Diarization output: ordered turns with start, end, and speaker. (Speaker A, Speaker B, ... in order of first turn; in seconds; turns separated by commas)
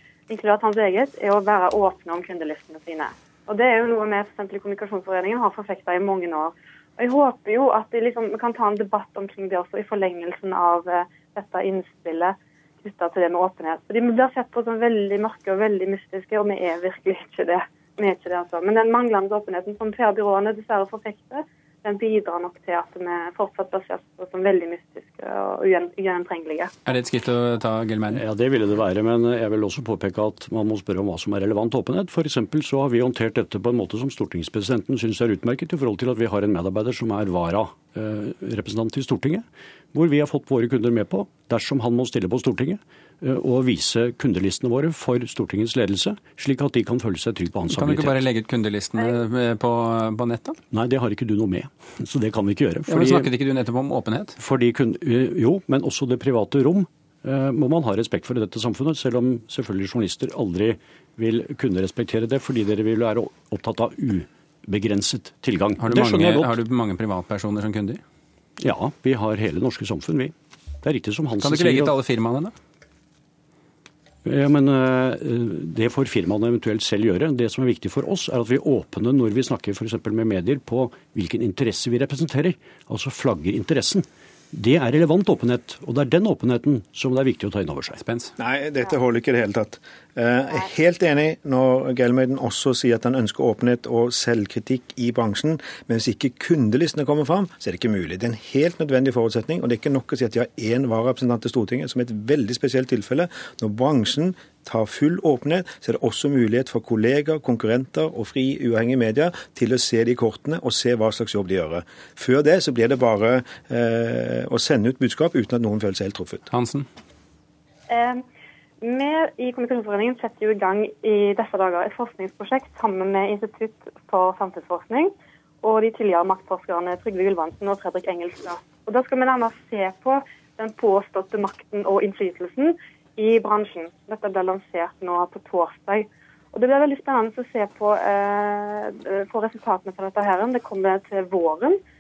Speaker A: 0.3-26.7, Speaker B: 26.9-28.2, Speaker C: 28.1-48.2, Speaker B: 47.7-50.6, Speaker C: 50.7-53.3, Speaker B: 52.9-54.4, Speaker C: 54.4-66.5, Speaker B: 65.8-68.0, Speaker C: 68.6-71.9, Speaker B: 71.4-72.5, Speaker C: 74.2-88.0, Speaker B: 88.0-88.3, Speaker D: 88.4-116.4, Speaker B: 116.5-116.9, Speaker A: 117.9-118.2, Speaker A: 118.8-141.8